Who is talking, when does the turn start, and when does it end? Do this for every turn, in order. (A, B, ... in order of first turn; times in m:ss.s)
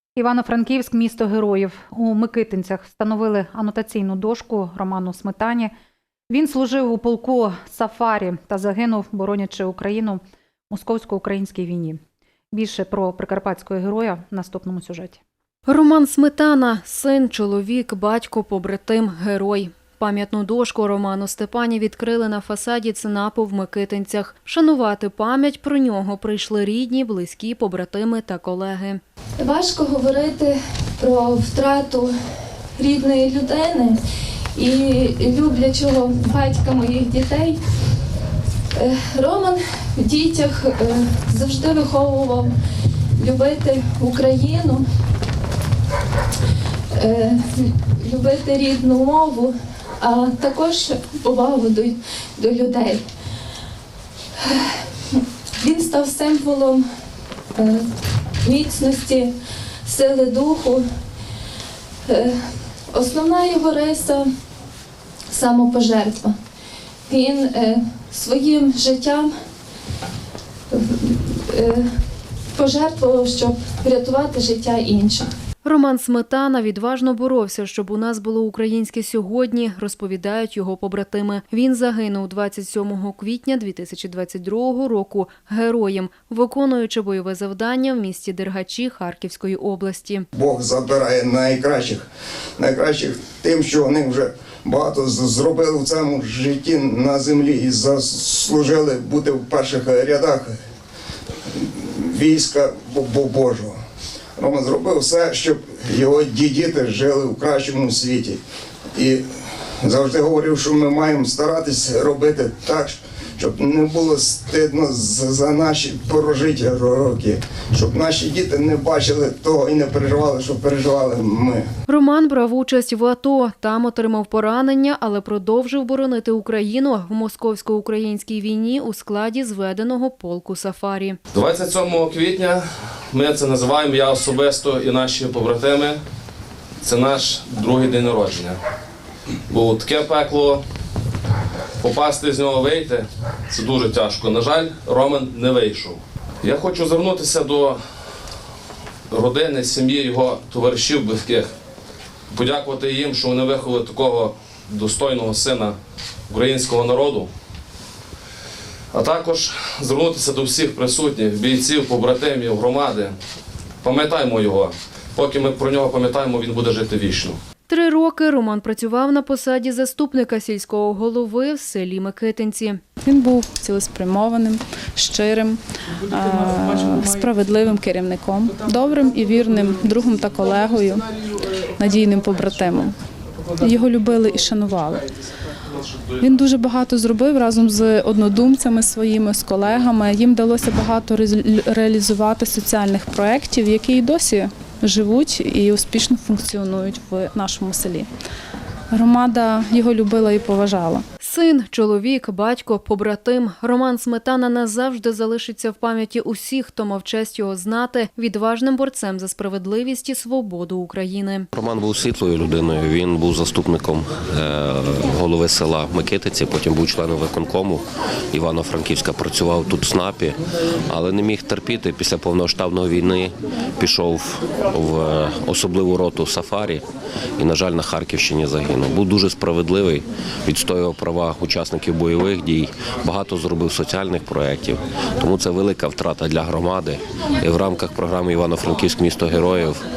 0:00.2-0:05.7 A
0:06.3-0:12.0 A
0:12.5-0:15.2 A
0:15.7-0:29.0 B
0:29.4-0:32.1 C
0:32.8-0:34.0 C
0:34.5-0:37.6 C
0:38.7-0:42.5 C
0:43.2-0:44.8 C
0:46.9-0:53.1 C
0:55.6-0:56.8 C
0:57.5-0:57.9 C
0:58.4-0:59.3 C
0:59.8-1:00.9 C
1:02.1-1:04.3 C
1:05.3-1:06.4 C
1:07.1-1:09.3 C
1:10.7-1:12.0 C
1:12.5-1:15.3 C
1:15.6-1:30.2 B
1:30.3-1:32.0 D
1:32.6-1:40.6 D
1:41.5-1:43.8 D
1:44.4-1:48.4 D
1:48.9-1:49.2 D
1:49.8-2:01.6 D
2:01.9-2:11.2 B
2:11.3-2:16.0 E
2:16.8-2:18.6 E
2:19.5-2:20.6 E
2:21.8-2:28.1 E
2:29.1-2:31.5 E
2:32.3-2:35.8 E
2:36.3-2:37.3 E
2:38.9-2:43.1 E
2:43.8-2:47.4 E
2:47.7-2:52.8 B
2:53.0-3:01.1 F
3:01.8-3:02.9 F
3:03.6-3:05.1 F
3:06.2-3:18.1 F
3:18.9-3:21.0 F
3:21.2-3:31.5 B
3:31.5-3:40.4 G
3:40.9-3:46.8 G
3:47.4-3:59.8 G